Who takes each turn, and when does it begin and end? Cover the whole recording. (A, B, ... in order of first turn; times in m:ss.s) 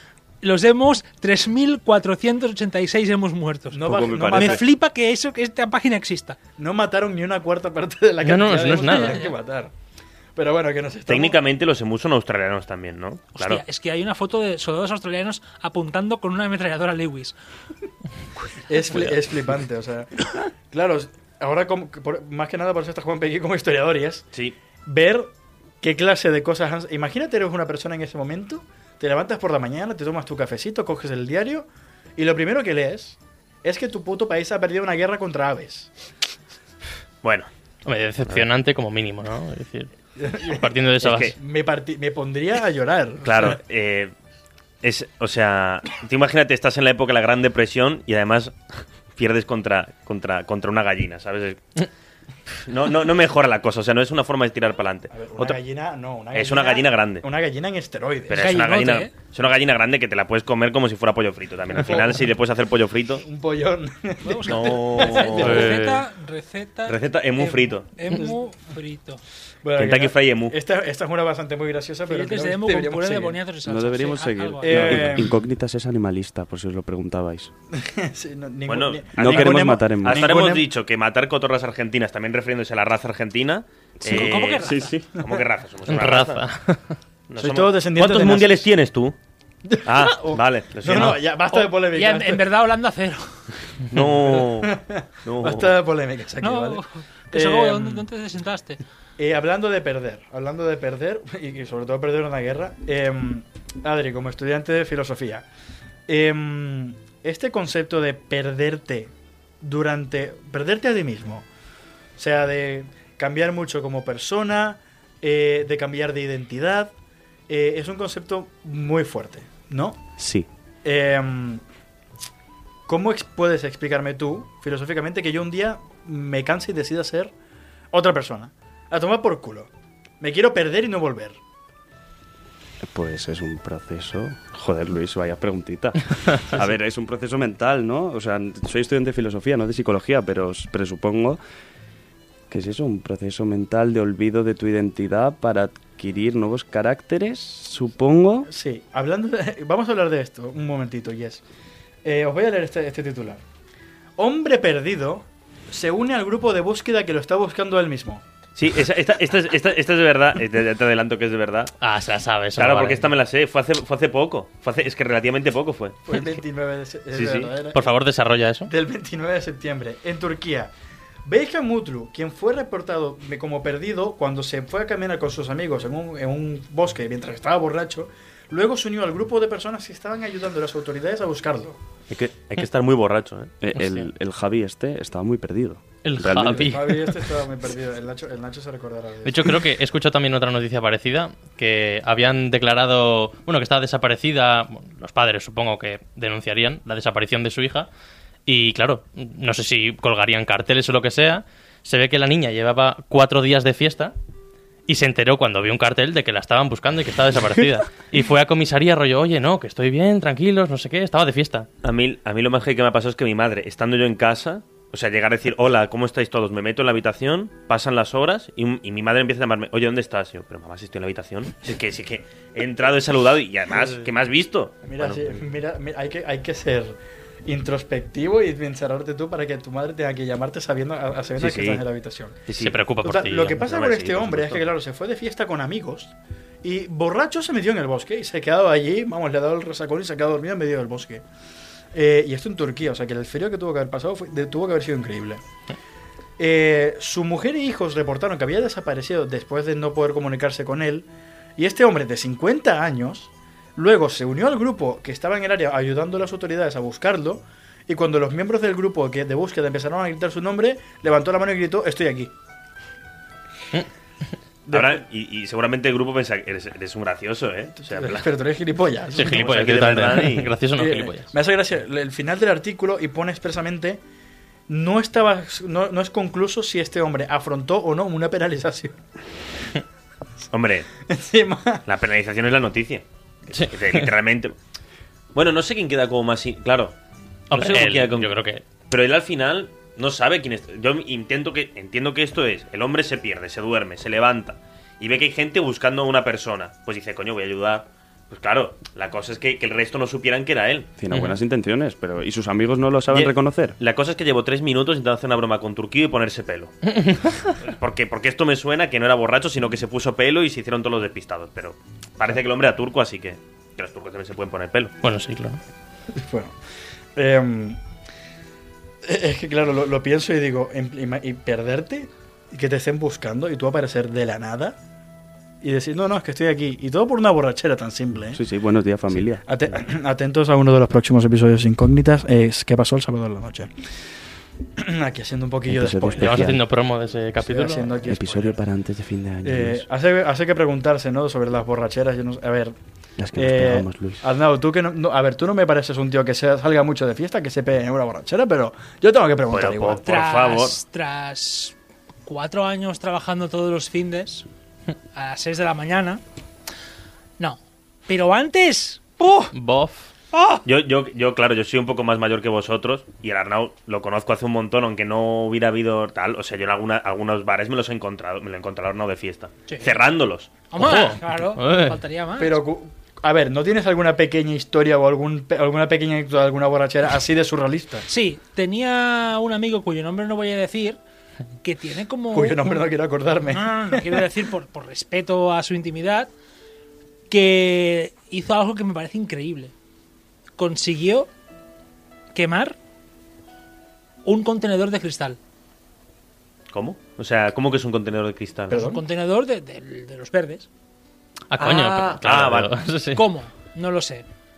0:00.4-0:06.4 A
0:03.7-0:04.6 B
0:03.8-0:04.6 C
0:06.6-0:09.7 B
0:08.2-0:09.3 D
0:08.8-0:09.3 A
0:10.4-0:11.4 B
0:11.1-0:13.6 E
0:13.4-0:17.4 A
0:18.7-0:24.3 B
0:24.9-0:35.9 B
0:37.2-0:37.5 E
0:37.8-0:39.9 D
0:40.2-0:43.6 B
0:40.5-0:41.4 D
0:41.0-0:41.3 E
0:43.2-0:44.1 E
0:44.8-0:48.6 E
0:49.2-0:51.8 E
0:52.6-0:55.6 E
0:55.1-0:58.5 B
0:56.3-0:57.2 E
0:58.3-1:03.2 E
0:58.3-0:59.1 A
1:01.8-1:02.2 B
1:03.2-1:05.8 B
1:04.2-1:09.2 A
1:04.5-1:05.7 E
1:05.4-1:06.0 D
1:06.9-1:07.9 E
1:09.6-1:13.4 B
1:09.8-1:10.6 E
1:12.1-1:15.2 A
1:13.7-1:17.5 C
1:14.6-1:15.4 B
1:17.8-1:20.7 B
1:18.7-1:26.4 E
1:19.2-1:20.3 C
1:24.0-1:25.0 A
1:24.0-1:25.0 C
1:25.9-1:27.0 D
1:27.3-1:29.1 E
1:27.4-1:28.7 B
1:29.7-1:32.5 B
1:29.8-1:31.2 E
1:31.5-1:33.4 A
1:33.9-1:34.7 E
1:34.0-1:38.1 B
1:35.2-1:35.8 E
1:36.4-1:38.8 A
1:39.2-1:45.4 B
1:46.1-1:51.4 B
1:52.2-1:56.9 B
1:57.5-2:00.0 B
2:00.2-2:00.5 C
2:00.8-2:01.6 B
2:02.9-2:07.3 B
2:07.9-2:09.7 B
2:10.2-2:11.4 B
2:12.8-2:21.4 C
2:22.5-2:28.5 C
2:28.5-2:31.4 B
2:32.0-2:33.4 B
2:34.2-2:38.2 B
2:38.6-2:41.7 E
2:41.8-2:43.1 D
2:42.6-2:46.1 E
2:46.1-2:47.9 B
2:47.1-2:47.5 E
2:47.7-2:48.7 D
2:48.7-2:50.7 B
2:51.2-3:01.8 B
3:02.1-3:03.5 E
3:03.6-3:06.9 C
3:03.8-3:04.1 D
3:06.0-3:07.2 D
3:06.4-3:09.6 B
3:09.2-3:17.9 D
3:18.5-3:24.1 D
3:24.9-3:31.7 D
3:31.8-3:45.4 E
3:44.9-3:47.0 B
3:47.5-3:52.4 B
3:51.4-3:51.8 E
3:52.5-3:52.8 E
3:52.6-3:53.6 D
3:53.0-4:01.2 B
3:53.5-3:54.6 E
4:01.9-4:05.4 B
4:06.4-4:11.1 B
4:11.6-4:22.3 B
4:24.7-4:25.0 B
4:24.7-4:28.3 E
4:27.8-4:29.8 B
4:29.1-4:31.3 D
4:29.3-4:30.5 E
4:30.8-4:34.0 B
4:34.7-4:39.0 B
4:40.5-4:40.9 E
4:41.1-4:41.8 B
4:41.9-4:44.5 E
4:43.5-4:44.0 D
4:45.3-4:46.9 E
4:47.5-4:48.6 D
4:47.5-4:48.3 E
4:48.9-5:00.9 E
5:01.0-5:03.8 C
5:03.1-5:06.8 E
5:07.0-5:07.3 D
5:07.5-5:14.9 E
5:15.0-5:15.6 D
5:16.1-5:16.6 B
5:17.2-5:17.8 B
5:19.0-5:24.8 B
5:25.6-5:28.4 B
5:28.3-5:29.4 C
5:29.4-5:33.7 B
5:34.8-5:36.6 B
5:35.7-5:36.6 C
5:36.2-5:37.9 D
5:37.4-5:38.6 B
5:38.0-5:39.9 C
5:39.4-5:42.8 B
5:43.2-5:44.2 C
5:43.4-5:50.0 B
5:49.5-5:50.8 E
5:50.0-5:51.8 A
5:52.3-5:54.5 A
5:55.2-5:56.2 A
5:57.4-5:59.5 A
5:59.5-6:00.1 D
6:00.3-6:00.6 A
6:00.6-6:10.6 E
6:09.7-6:10.0 A
6:10.7-6:12.6 A
6:10.8-6:12.0 D
6:12.4-6:18.1 B
6:18.1-6:21.0 A
6:21.6-6:22.8 A
6:22.3-6:24.3 B
6:23.5-6:26.3 A
6:27.3-6:29.7 A
6:30.6-6:31.3 A
6:32.4-6:32.8 A
6:34.2-6:35.4 A
6:36.7-6:38.8 E
6:38.7-6:39.0 B
6:38.7-6:40.7 A
6:41.5-6:43.2 D
6:41.6-6:42.7 E
6:43.1-6:44.2 A